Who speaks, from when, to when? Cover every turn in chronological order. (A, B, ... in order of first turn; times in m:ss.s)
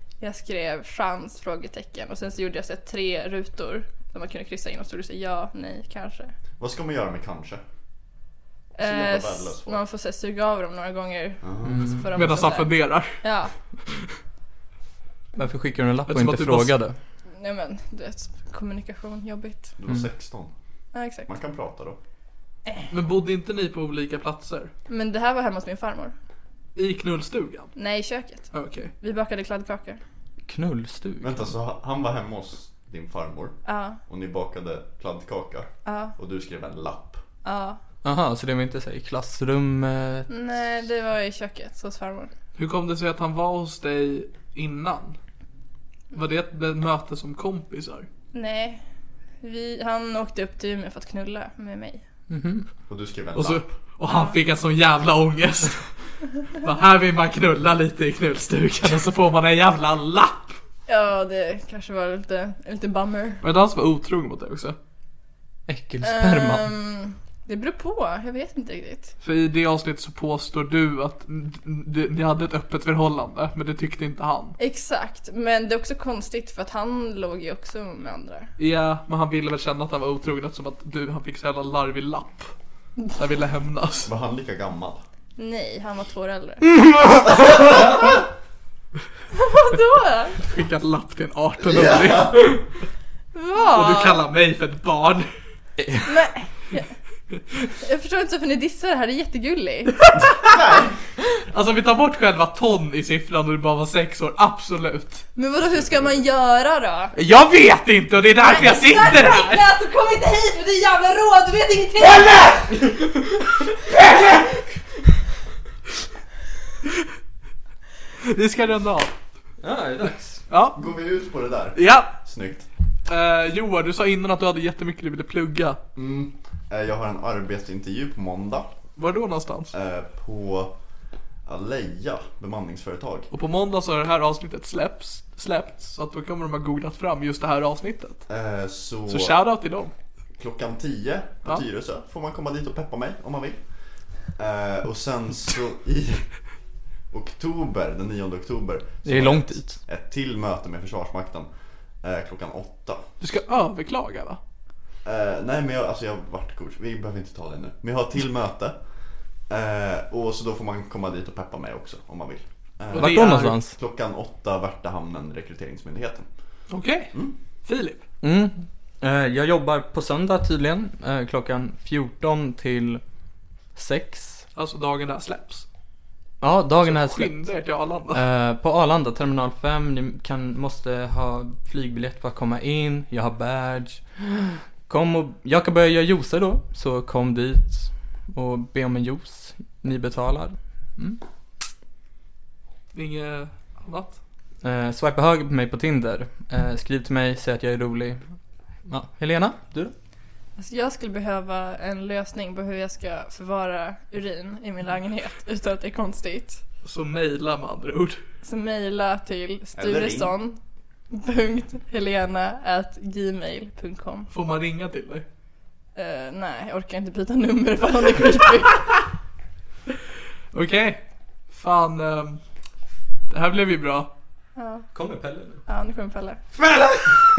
0:00.2-0:06.3 A
0:06.6-0:07.6 B
0:08.8-0:13.5 A
0:08.8-0:09.8 B
0:11.4-0:12.0 B
0:11.6-0:12.0 C
0:12.1-0:13.2 D
0:15.4-0:17.0 C
0:16.1-0:16.7 D
0:17.3-0:19.7 A
0:19.8-0:20.5 B
0:20.9-0:21.3 A
0:21.2-0:22.0 B
0:22.9-0:24.7 D
0:24.9-0:26.1 A
0:26.8-0:27.7 D
0:27.8-0:30.0 A
0:28.5-0:28.9 D
0:30.5-0:31.5 C
0:31.2-0:37.2 B
0:33.6-0:34.0 A
0:35.8-0:36.1 A
0:37.4-0:37.8 A
0:38.0-0:40.3 C
0:40.3-0:42.3 A
0:42.6-0:45.2 D
0:46.1-0:48.1 D
0:48.3-0:48.8 A
0:49.4-0:52.0 A
0:52.3-0:52.6 C
0:52.9-0:53.7 B
0:53.4-0:55.9 D
0:54.0-0:54.4 A
0:56.5-1:00.6 D
1:00.9-1:03.4 A
1:03.4-1:04.8 D
1:05.7-1:06.7 C
1:06.0-1:09.1 A
1:09.2-1:14.6 D
1:14.6-1:18.5 A
1:18.6-1:22.5 D
1:23.1-1:24.1 D
1:24.0-1:25.0 B
1:25.4-1:26.7 A
1:29.3-1:30.4 A
1:30.4-1:32.6 D
1:31.6-1:32.6 B
1:33.3-1:34.2 A
1:33.7-1:35.3 D
1:35.8-1:36.2 C
1:36.1-1:36.9 A
1:37.8-1:40.0 A
1:40.2-1:40.9 B
1:41.5-1:45.3 D
1:45.4-1:47.1 A
1:45.7-1:46.2 B
1:47.1-1:49.6 D
1:48.4-1:52.5 A
1:58.2-1:59.1 D
1:59.6-2:00.4 C
2:00.5-2:00.8 D
2:00.7-2:02.7 B
2:01.7-2:02.2 D
2:03.1-2:05.8 D
2:05.9-2:08.7 B
2:09.0-2:09.7 D
2:09.7-2:10.8 B
2:11.4-2:13.3 B
2:13.3-2:18.2 D
2:18.3-2:19.4 B
2:19.1-2:19.9 D
2:20.4-2:23.6 B
2:24.3-2:26.3 B
2:27.1-2:31.5 B
2:29.0-2:29.8 C
2:32.0-2:33.0 B
2:33.2-2:34.4 D
2:35.0-2:38.8 B
2:39.5-2:46.3 B
2:42.9-2:43.7 C
2:42.9-2:43.6 D
2:46.7-2:47.1 D
2:47.6-2:48.0 D
2:48.2-2:53.0 C
2:53.7-2:54.4 C
2:54.5-2:55.6 D
2:56.4-2:57.4 C
2:56.8-2:58.2 D
2:58.1-3:11.2 C
3:12.9-3:14.2 D
3:14.6-3:18.3 C
3:18.8-3:19.9 C
3:20.6-3:26.6 A
3:26.8-3:28.2 D
3:28.4-3:30.6 A
3:29.8-3:30.3 B
3:31.1-3:34.3 A
3:34.3-3:35.2 D
3:35.9-3:38.9 A
3:40.5-3:42.4 D
3:43.3-3:44.1 D
3:44.6-3:44.9 A
3:44.9-3:45.6 C
3:45.7-3:46.4 A
3:46.7-3:47.1 D